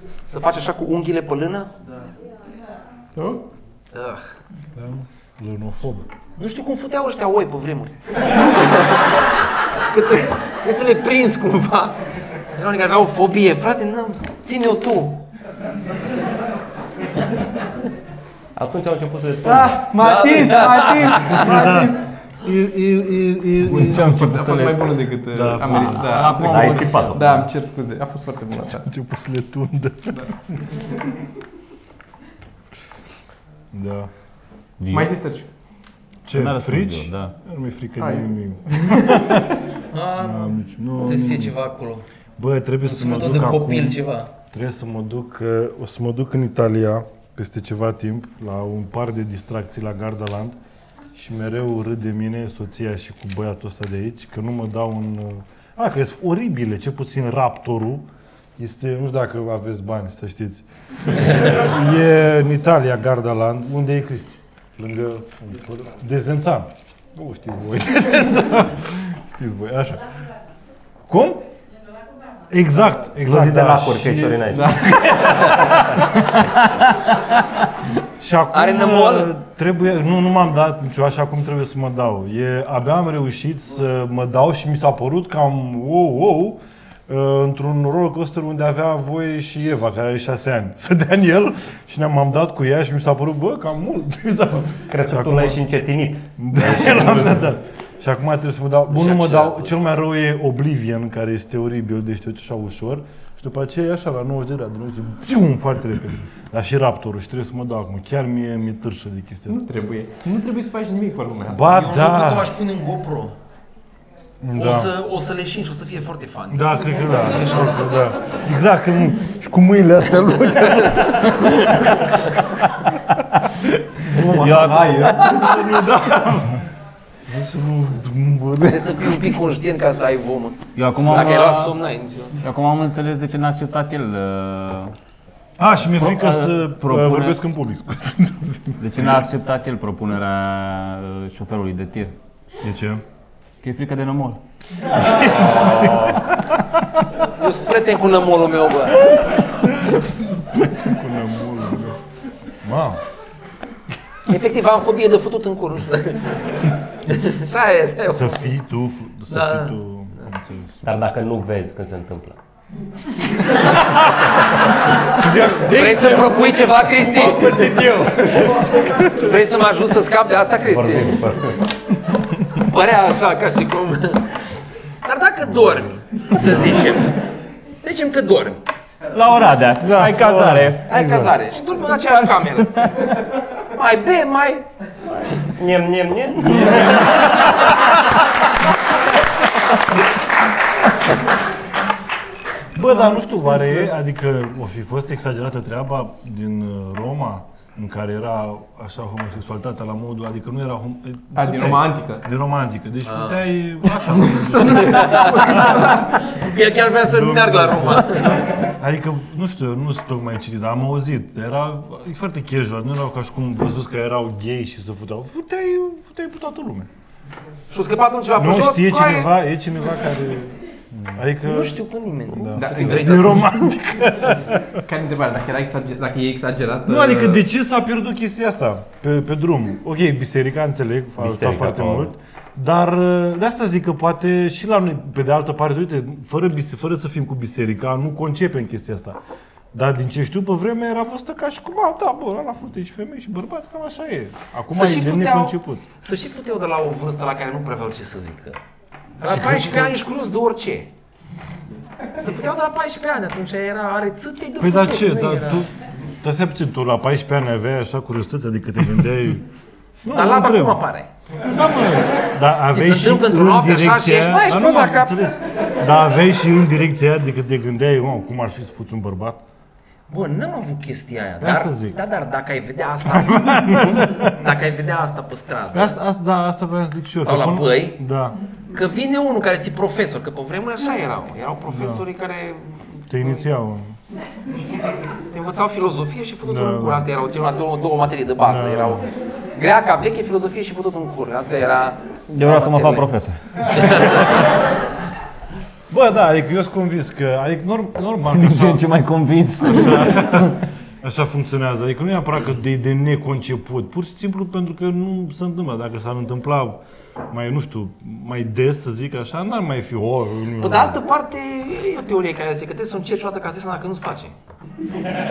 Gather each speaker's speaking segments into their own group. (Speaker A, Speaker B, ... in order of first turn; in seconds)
Speaker A: 0.3-1.7, 3.9-4.3, 6.4-9.1, 9.8-12.0, 12.5-15.2, 20.0-21.4, 39.9-42.0, 42.9-44.3, 78.5-79.3, 98.9-99.9, 111.6-113.3, 114.5-118.1, 128.6-132.4, 147.2-149.1, 154.3-158.6, 159.3-159.8, 165.7-171.2, 172.4-174.4, 175.0-177.2, 177.8-178.6, 180.9-184.7, 203.1-203.4, 205.0-208.5, 217.7-219.3, 221.4-223.5, 244.7-248.6, 249.2-250.9, 252.2-255.7, 260.1-261.1, 262.7-265.2, 270.1-276.0, 277.2-278.0, 278.7-283.5, 285.2-293.1, 293.7-294.4, 310.6-314.4
Speaker B: 3.1-3.4, 19.4-22.1, 23.6-28.9, 30.1-30.4, 34.9-35.5, 38.0-39.7, 74.5-75.8, 109.5-111.8, 124.1-125.5, 193.1-193.9, 201.3-202.2, 204.0-206.3, 222.5-223.2, 224.8-227.4
Speaker C: 4.7-6.1, 21.2-24.3, 25.3-26.4, 28.7-30.9, 33.7-34.1, 36.3-39.6, 40.2-41.6, 42.4-50.6, 51.1-58.1, 58.6-70.2, 71.1-71.4, 72.5-75.7, 78.2-95.6, 96.4-109.7, 111.5-112.5, 114.4-114.9, 116.5-122.1, 124.0-126.7, 127.3-129.4, 135.6-139.2, 142.6-143.0, 144.9-147.0, 149.6-152.0, 152.6-153.0, 158.1-160.8, 163.8-164.3, 165.1-168.8, 175.6-176.8, 179.8-181.3, 186.5-187.8, 192.8-205.9, 207.0-216.9, 218.4-221.8, 222.3-224.8, 226.9-239.2, 239.7-245.8, 249.2-250.0, 254.6-255.7, 256.2-259.5, 260.0-260.8, 261.4-269.4, 271.4-272.0, 273.1-274.5, 275.7-278.4, 281.7-282.1, 283.1-284.0, 286.4-287.1, 288.4-289.1, 295.9-298.9, 299.6-311.0
Speaker D: 18.6-19.8, 26.4-27.5, 73.2-75.4, 94.9-97.5, 160.8-162.4, 170.6-171.6, 185.4-187.2, 231.2-232.1
Speaker E: 23.7-25.0, 25.6-27.2, 34.8-35.1, 36.3-37.3, 124.3-125.2, 130.8-131.8, 132.4-134.9, 136.0-137.4, 138.8-142.1, 143.6-144.4, 179.1-180.8, 182.3-182.9, 292.3-294.1, 298.2-300.6